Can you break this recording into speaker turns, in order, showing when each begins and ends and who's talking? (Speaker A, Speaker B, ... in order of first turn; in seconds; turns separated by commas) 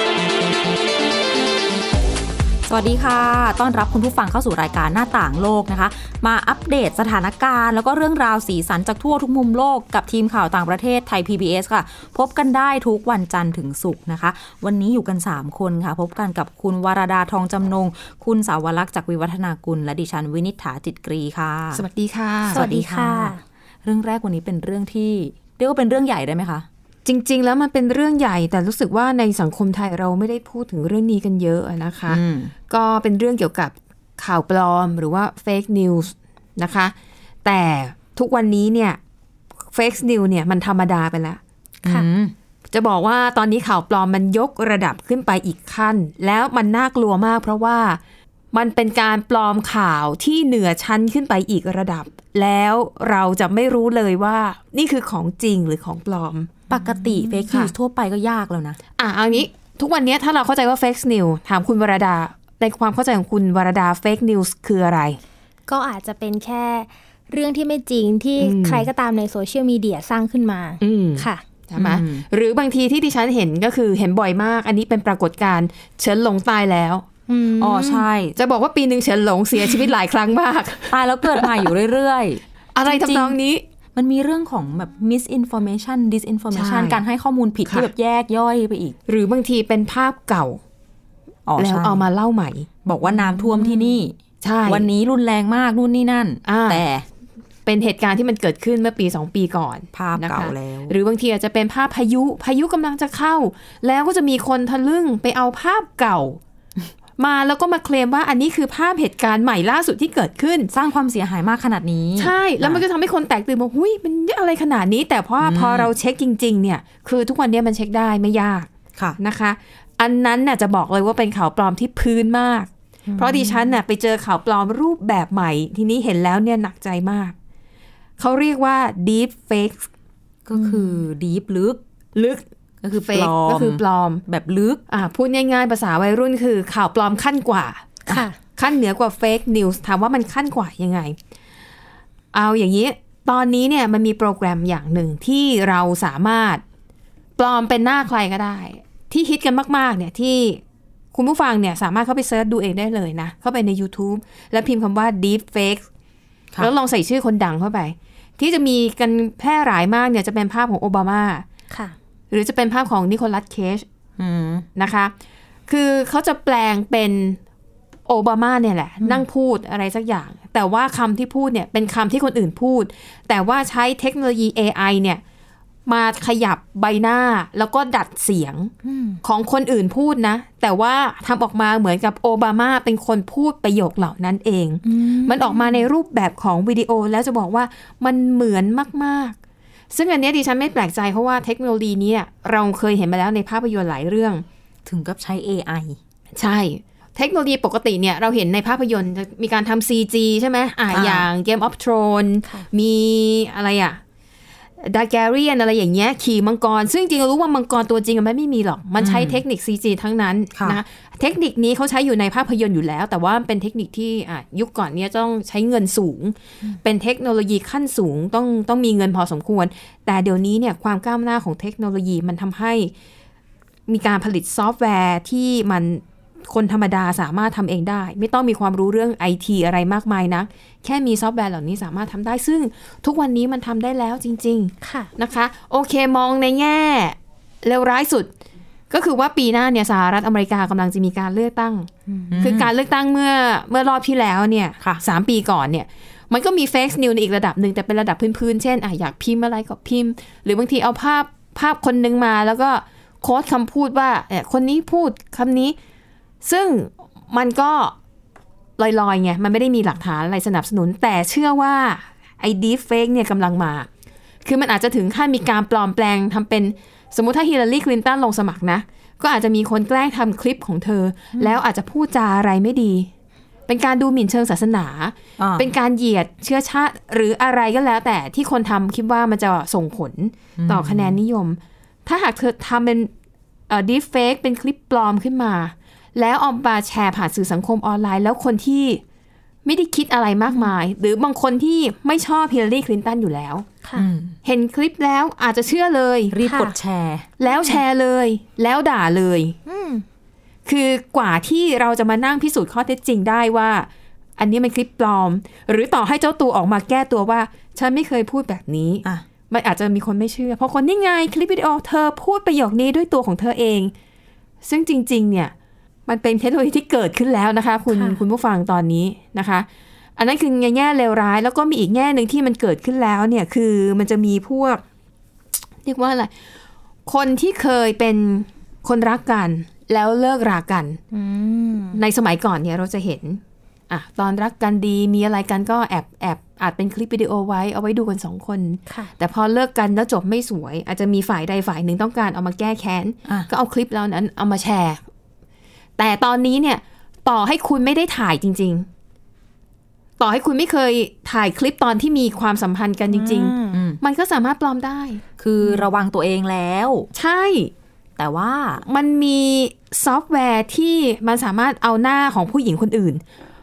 Speaker A: 2.7-21.8, Speaker B: 21.7-22.6, Speaker A: 22.5-26.7, Speaker C: 22.5-23.4, Speaker B: 27.1-39.0, Speaker A: 32.1-32.5, Speaker B: 39.7-41.4, Speaker A: 41.8-42.3, Speaker B: 42.7-48.0, Speaker B: 48.5-56.7, Speaker A: 56.7-58.8, Speaker B: 59.0-65.2, Speaker C: 65.7-71.4, Speaker B: 68.4-68.9, Speaker B: 70.8-77.0, Speaker A: 71.8-72.2, Speaker C: 77.3-78.0, Speaker A: 77.6-78.3, Speaker B: 78.4-81.5, Speaker A: 80.9-83.4, Speaker B: 82.8-83.6, Speaker A: 83.9-89.0, Speaker B: 86.5-87.0, Speaker B: 89.1-90.6, Speaker A: 91.5-92.0, Speaker B: 91.6-92.7, Speaker A: 92.8-97.0, Speaker B: 94.4-94.9, Speaker B: 96.4-96.8, Speaker B: 97.7-106.4, Speaker A: 99.9-100.9, Speaker B: 107.2-110.7, Speaker A: 110.7-112.8, Speaker B: 112.2-127.3, Speaker A: 115.4-115.9, Speaker C: 123.1-123.6, Speaker B: 128.2-129.9, Speaker A: 130.4-131.8, Speaker C: 130.6-130.9, Speaker B: 132.1-134.2, Speaker A: 132.8-134.8, Speaker B: 134.9-137.9, Speaker C: 138.1-138.4, Speaker B: 138.6-141.2, Speaker B: 142.3-146.6, Speaker B: 147.4-150.6, Speaker B: 151.1-155.9, Speaker B: 156.6-161.4, Speaker B: 162.3-163.8, Speaker A: 164.2-164.7, Speaker B: 164.8-165.1, Speaker B: 165.7-167.4, Speaker B: 168.1-175.2, Speaker B: 175.9-189.3, Speaker C: 178.8-179.2, Speaker C: 184.8-185.8, Speaker B: 189.9-194.4, Speaker A: 194.9-196.0, Speaker B: 196.3-204.0, Speaker A: 200.9-201.3, Speaker B: 204.8-222.9, Speaker A: 209.0-209.4, Speaker A: 210.6-210.8, Speaker B: 223.9-238.3, Speaker C: 234.8-235.1, Speaker B: 238.9-255.8, Speaker A: 242.3-242.7, Speaker B: 256.4-257.9, Speaker B: 258.8-263.9, Speaker B: 264.4-273.1, Speaker B: 273.7-283.1, Speaker A: 275.4-275.7, Speaker A: 280.6-281.2, Speaker B: 283.7-289.0, Speaker B: 289.6-293.7, Speaker A: 293.9-294.4, Speaker B: 294.4-296.4, Speaker A: 296.3-297.3, Speaker C: 296.4-296.7, Speaker B: 297.4-299.6, Speaker C: 297.4-297.8, Speaker C: 299.7-300.1, Speaker B: 300.6-313.9, Speaker B: 314.6-315.5, Speaker B: 316.1-324.8, Speaker C: 317.9-318.2, Speaker B: 325.8-326.3, Speaker B: 327.1-331.0, Speaker C: 331.1-332.0, Speaker B: 331.9-345.0, Speaker B: 346.0-348.9, Speaker B: 350.2-355.8, Speaker C: 353.1-353.8, Speaker A: 353.7-354.0, Speaker A: 355.4-357.1, Speaker B: 357.1-357.7, Speaker A: 358.2-358.8, Speaker B: 358.9-363.2